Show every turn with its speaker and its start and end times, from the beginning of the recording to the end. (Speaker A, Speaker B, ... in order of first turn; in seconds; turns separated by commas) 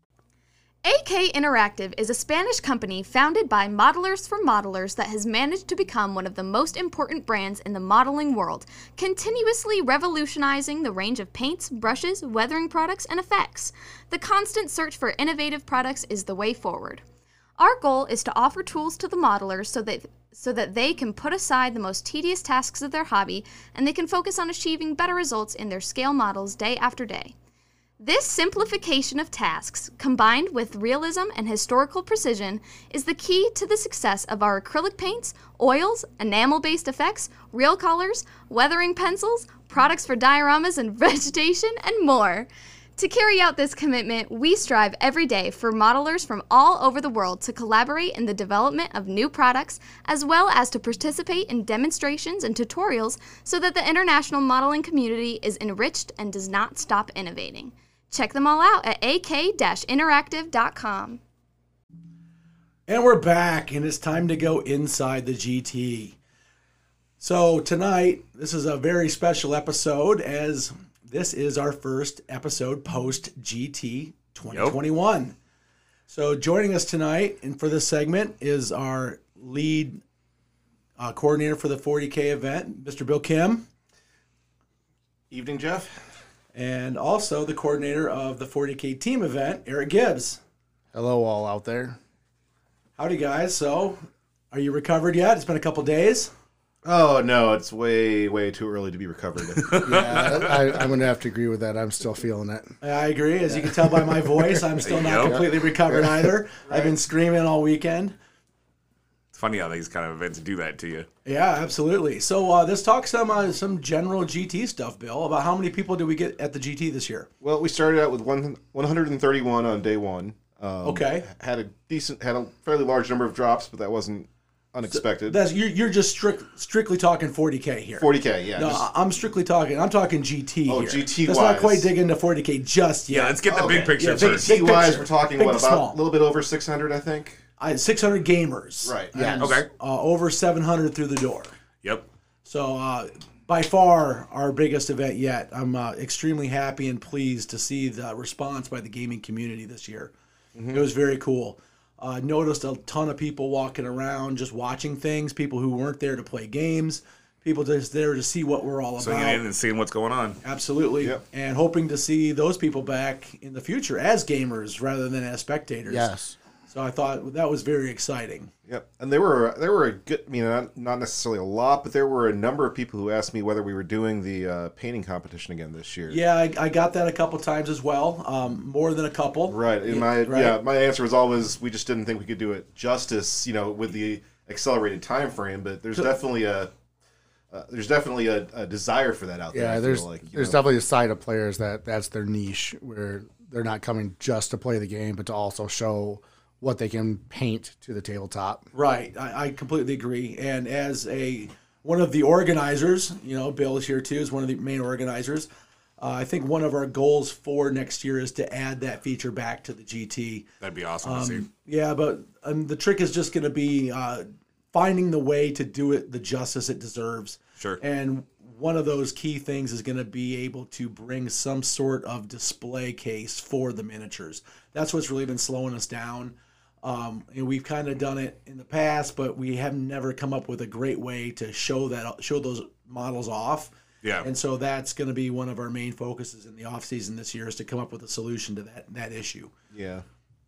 Speaker A: 0.8-17.0, Speaker A: 17.6-27.3, Speaker A: 28.0-61.2, Speaker B: 62.9-66.2, Speaker B: 67.2-75.3, Speaker C: 74.5-74.8, Speaker B: 76.1-80.0, Speaker B: 81.0-83.6, Speaker D: 85.3-86.0, Speaker B: 86.5-90.4, Speaker E: 90.9-92.0, Speaker B: 93.0-96.3, Speaker D: 96.8-100.5, Speaker C: 99.5-100.8, Speaker E: 99.8-102.7, Speaker B: 102.8-108.2, Speaker E: 103.6-104.6, Speaker C: 104.8-105.4, Speaker E: 105.2-106.3, Speaker D: 106.7-107.0, Speaker C: 109.3-111.1, Speaker B: 111.2-117.3, Speaker D: 117.4-125.4, Speaker B: 120.8-121.3, Speaker B: 124.9-136.0, Speaker D: 128.0-128.9, Speaker D: 130.7-131.9, Speaker C: 133.1-134.5, Speaker D: 133.5-137.4, Speaker B: 137.6-141.5, Speaker D: 138.8-139.1, Speaker E: 139.1-139.5, Speaker C: 139.4-139.7, Speaker B: 142.4-150.1, Speaker D: 150.5-150.8, Speaker B: 150.7-159.4, Speaker C: 159.0-160.4, Speaker B: 160.4-166.1, Speaker E: 165.9-166.4, Speaker B: 166.7-168.5, Speaker D: 168.7-176.2, Speaker B: 176.1-180.6, Speaker D: 179.5-186.7, Speaker D: 187.5-190.6, Speaker E: 189.5-198.7, Speaker B: 198.7-205.5, Speaker B: 206.0-210.5, Speaker C: 210.6-211.5, Speaker B: 211.0-239.5, Speaker C: 234.0-234.3, Speaker D: 239.7-240.0